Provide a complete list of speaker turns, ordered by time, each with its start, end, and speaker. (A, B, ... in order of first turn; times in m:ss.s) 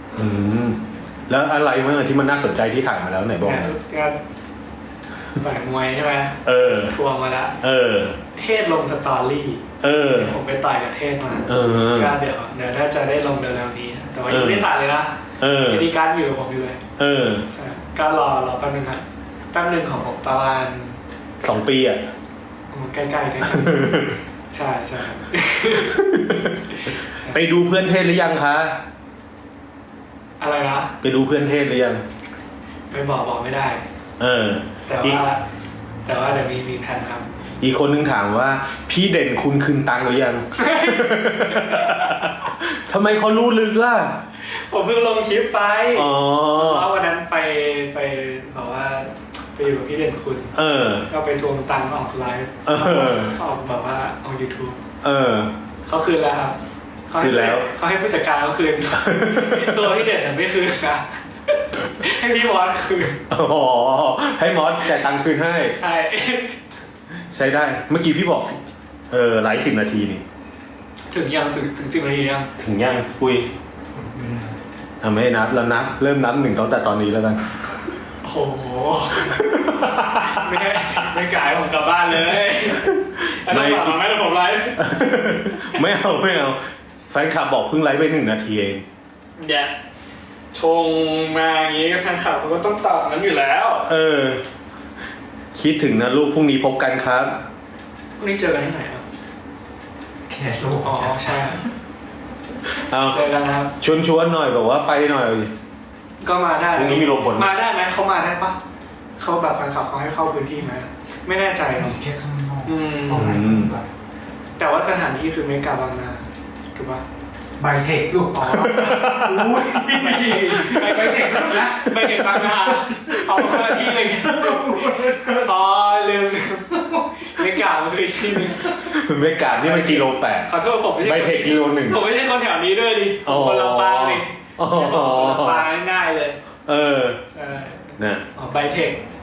0:00.1-0:03.7 A
0:03.4-0:04.2 B
0:05.4-0:07.6 B
0:06.4-0:06.9 A
0:07.6-0:08.2 A
0:08.3-0:16.8 B
0:09.8-0:10.4 A
0:11.5-0:12.2 A
0:14.3-0:14.7 A
0:15.4-0:15.9 A
0:17.0-0:17.5 A
0:17.5-0:21.0 B
0:21.4-0:22.1 A
0:22.7-0:26.0 B
0:23.5-0:24.2 A
0:25.8-0:26.6 A
0:26.9-0:27.4 B
0:27.3-0:28.8 A
0:30.4-0:30.9 B
0:31.0-0:32.0 A
0:32.9-0:33.8 B
0:34.2-0:35.2 A
0:34.9-0:35.4 B
0:36.0-0:37.3 B
0:37.6-0:44.2 A
0:40.6-0:42.3 B
0:44.4-0:50.6 B
0:45.9-0:46.9 A
0:50.6-0:51.1 A
0:51.1-0:54.8 B
0:52.7-0:53.4 A
0:55.0-0:55.5 A
0:55.9-0:56.6 B
0:57.1-1:03.2 B
0:57.2-0:57.7 A
0:59.0-0:59.9 A
1:03.3-1:05.8 A
1:05.8-1:06.6 B
1:07.2-1:10.2 A
1:11.1-1:12.5 B
1:12.6-1:13.5 A
1:14.0-1:14.6 C
1:15.0-1:17.9 A
1:18.2-1:24.8 B
1:19.3-1:21.0 A
1:22.8-1:24.0 A
1:24.8-1:28.8 A
1:29.4-1:29.7 B
1:30.5-1:33.9 B
1:33.9-1:34.4 A
1:35.5-1:37.3 A
1:38.2-1:39.0 B
1:40.3-1:41.7 C
1:40.8-1:41.6 B
1:42.7-1:43.2 A
1:43.1-1:43.7 B
1:43.8-1:45.5 A
1:46.2-1:48.6 B
1:46.7-1:47.5 A
1:49.2-1:52.0 B
1:51.8-1:53.9 C
1:52.6-1:53.4 B
1:53.1-1:53.8 A
1:54.6-1:57.0 B
1:57.6-2:05.5 C
1:58.4-1:59.7 A
1:59.9-2:16.4 B
2:06.9-2:07.3 C
2:08.7-2:10.5 A
2:11.0-2:12.0 A
2:13.2-2:15.7 A
2:16.7-2:17.2 A
2:17.3-2:19.0 B
2:18.0-2:18.3 A